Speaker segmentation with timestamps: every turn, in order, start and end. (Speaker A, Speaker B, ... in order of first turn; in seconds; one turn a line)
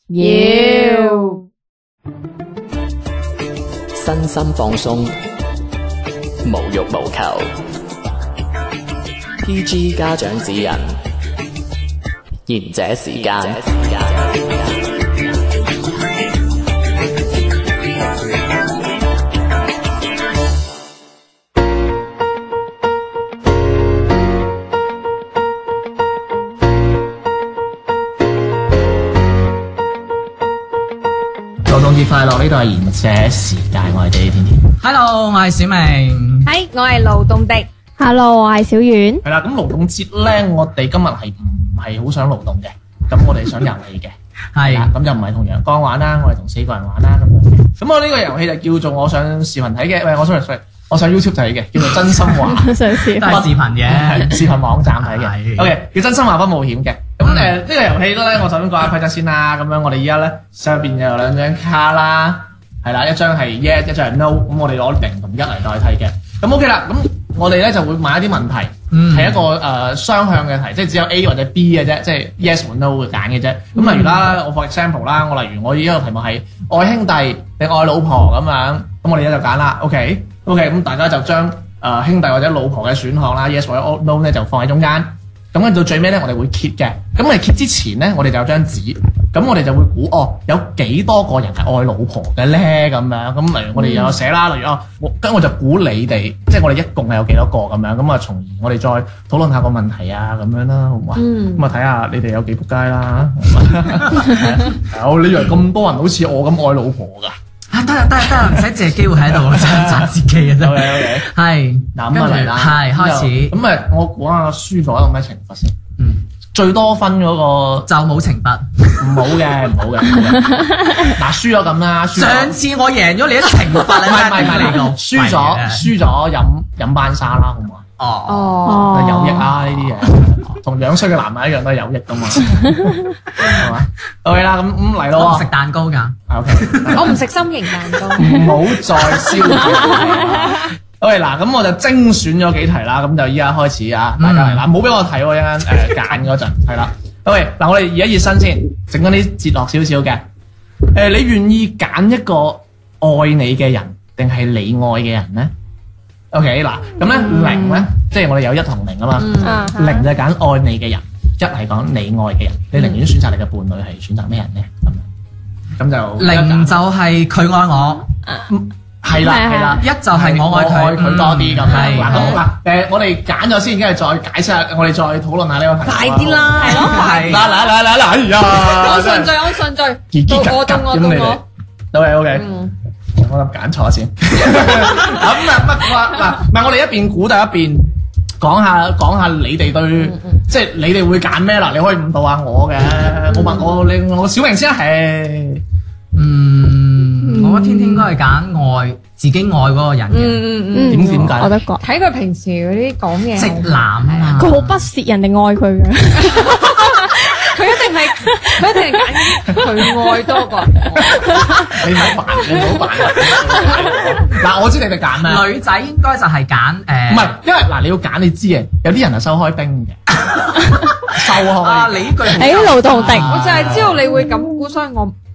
Speaker A: 0.1-1.4
Speaker B: 0.2-1.4
Speaker C: 4.0-5.2
Speaker C: 6.5-7.5
Speaker C: 9.4-11.0
Speaker C: 12.5-14.8
Speaker D: 31.6-34.7
Speaker E: 34.8-36.5
Speaker A: 36.5-37.7
Speaker B: 38.0-39.2
Speaker D: 39.2-107.4
Speaker E: 44.5-44.9
Speaker B: 52.5-53.5
Speaker E: 53.1-55.8
Speaker E: 57.2-57.5
Speaker E: 68.9-69.5
Speaker A: 73.8-74.2
Speaker A: 93.8-94.2
Speaker A: 101.2-101.7
Speaker E: 107.7-113.6
Speaker D: 109.5-111.3
Speaker D: 112.0-115.8
Speaker E: 116.0-116.2
Speaker D: 116.5-117.9
Speaker E: 117.9-119.3
Speaker D: 119.0-122.6
Speaker E: 122.2-125.9
Speaker D: 123.9-127.8
Speaker E: 128.0-128.6
Speaker A: 128.3-129.5
Speaker B: 128.7-129.3
Speaker D: 128.9-135.5
Speaker E: 135.1-137.2
Speaker D: 136.3-137.2
Speaker A: 136.9-138.5
Speaker D: 138.2-150.3
Speaker B: 139.9-140.3
Speaker E: 144.2-144.6
Speaker D: 150.9-155.5
Speaker D: 156.3-165.1
Speaker A: 157.3-157.9
Speaker A: 159.2-159.7
Speaker B: 159.4-160.0
Speaker A: 162.8-163.0
Speaker D: 165.8-166.8
Speaker E: 166.2-168.1
Speaker D: 168.5-179.6
Speaker B: 169.2-169.8
Speaker E: 169.8-172.4
Speaker A: 171.7-172.2
Speaker A: 175.8-177.7
Speaker B: 176.6-177.1
Speaker E: 176.8-177.5
Speaker A: 178.5-181.4
Speaker D: 180.1-182.5
Speaker A: 182.3-182.7
Speaker D: 183.1-195.6
Speaker A: 190.0-190.4
Speaker A: 193.3-193.7
Speaker E: 196.2-200.5
Speaker A: 197.3-198.1
Speaker A: 200.1-201.1
Speaker B: 200.7-201.8
Speaker D: 200.8-201.6
Speaker A: 201.8-204.6
Speaker E: 203.4-204.9
Speaker B: 204.4-207.1
Speaker A: 206.2-211.6
Speaker B: 208.4-208.8
Speaker B: 209.4-210.5
Speaker D: 211.0-215.5
Speaker E: 215.2-217.4
Speaker D: 217.1-220.0
Speaker E: 220.1-224.0
Speaker D: 221.1-224.0
Speaker B: 222.3-223.3
Speaker A: 223.3-225.2